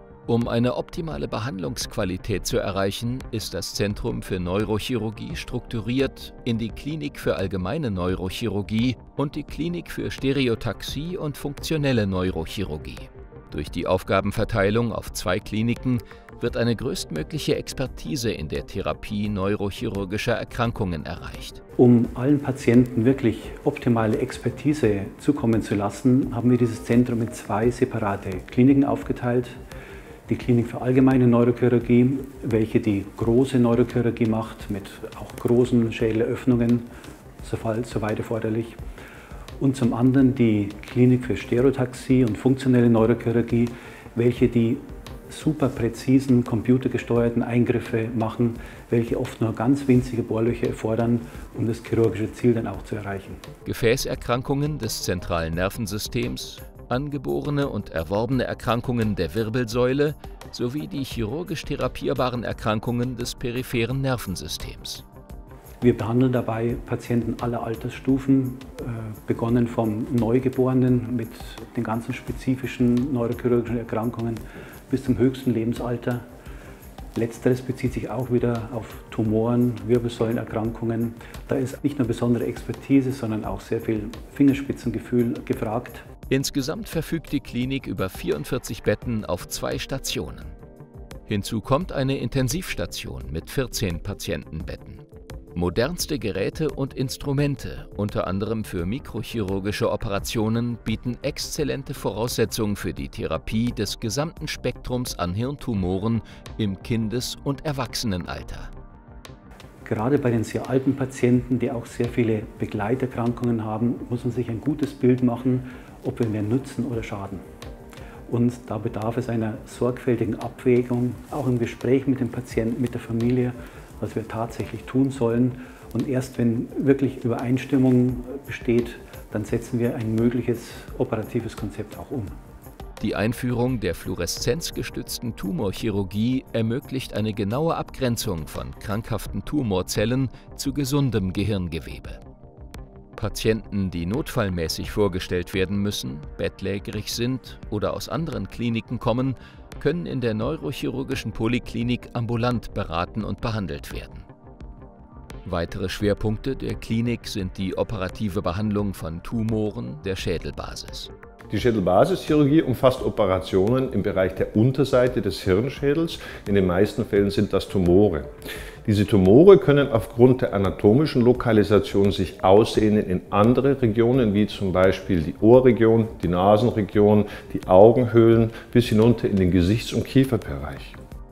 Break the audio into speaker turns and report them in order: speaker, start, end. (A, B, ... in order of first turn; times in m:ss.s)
0:00.3-0:21.6 A
0:21.8-0:29.6 B
0:30.3-0:36.9 B
0:37.4-0:38.8 B
0:39.6-0:53.4 B
0:53.6-1:05.0 A
1:05.8-1:16.2 B
1:17.2-1:26.1 B
1:26.3-1:30.6 A
1:31.3-1:48.7 A
1:49.8-1:57.4 B
1:58.3-2:12.3 B
2:13.0-2:22.2 A
2:23.2-2:34.3 A
2:35.4-2:41.1 A
2:41.5-2:48.3 C
2:48.8-3:01.0 C